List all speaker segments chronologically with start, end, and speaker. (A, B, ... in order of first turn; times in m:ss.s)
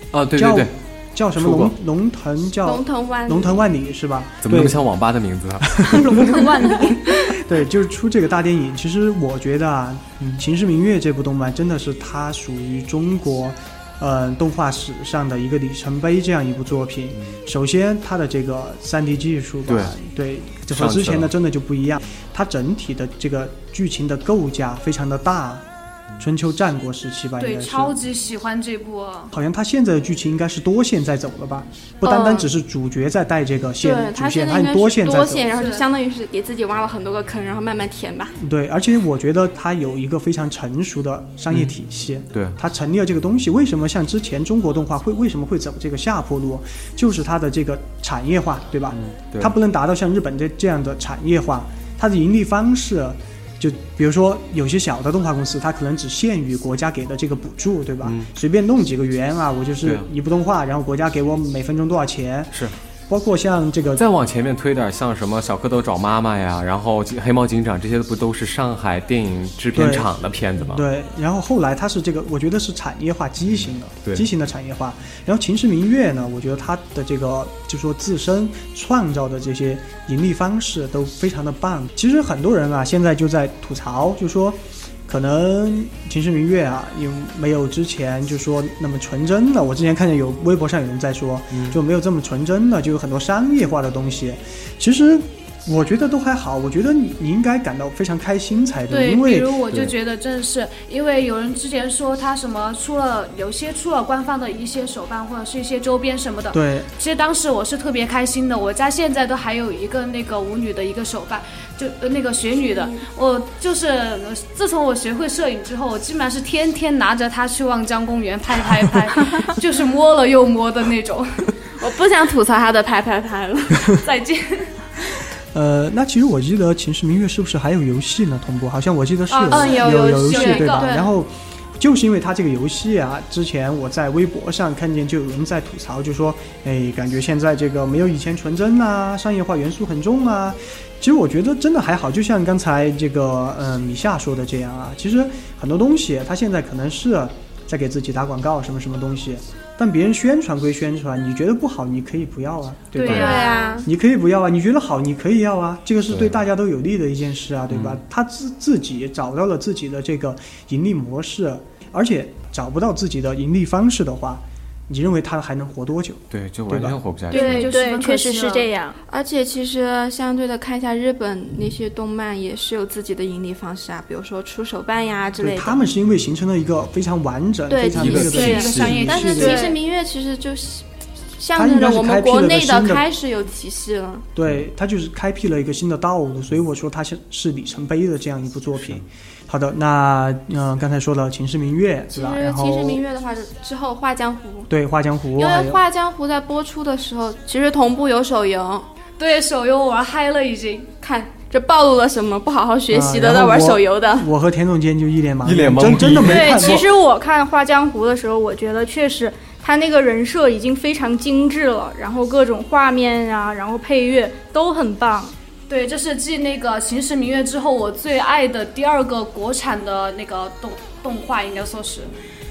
0:00.1-0:00.7 A
0:00.3-0:04.8 B
0:01.4-0:01.7 A
0:02.6-0:03.6 C
0:04.4-0:05.9 A
0:05.8-0:25.6 B
0:05.8-0:07.2 D
0:19.7-0:19.9 A
0:20.7-0:21.3 A
0:26.2-0:27.9 B
0:27.4-0:29.3 E
0:29.3-0:35.5 B
0:32.0-0:32.5 C
0:33.8-0:38.4 C
0:35.5-0:35.8 E
0:38.4-1:04.0 B
0:48.9-0:49.5 A
0:58.0-0:58.3 A
1:04.0-1:10.8 A
1:09.7-1:39.6 B
1:31.5-1:31.8 A
1:38.9-2:01.5 E
1:46.5-1:46.9 B
2:01.8-2:04.0 C
2:04.0-2:04.7 E
2:05.5-2:47.0 B
2:09.3-2:10.9 E
2:09.4-2:11.1 C
2:33.0-2:33.6 E
2:33.0-2:33.3 A
2:33.1-2:33.9 C
2:36.1-2:36.4 A
2:37.7-2:38.0 A
2:46.3-2:47.7 A
2:47.3-2:48.7 E
2:47.3-2:49.0 D
2:49.1-2:55.8 C
2:55.4-2:59.6 B
2:57.7-3:00.8 C
2:57.9-2:59.1 A
2:58.2-2:59.7 E
2:59.4-2:59.8 D
3:01.4-3:04.2 C
3:01.5-3:03.0 B
3:04.4-3:13.0 B
3:12.1-3:14.7 C
3:14.7-3:15.8 B
3:15.4-3:18.8 C
3:19.2-3:20.9 E
3:21.0-3:24.3 C
3:22.9-3:26.8 B
3:25.4-3:26.8 A
3:26.2-3:35.3 D
3:35.7-3:42.1 E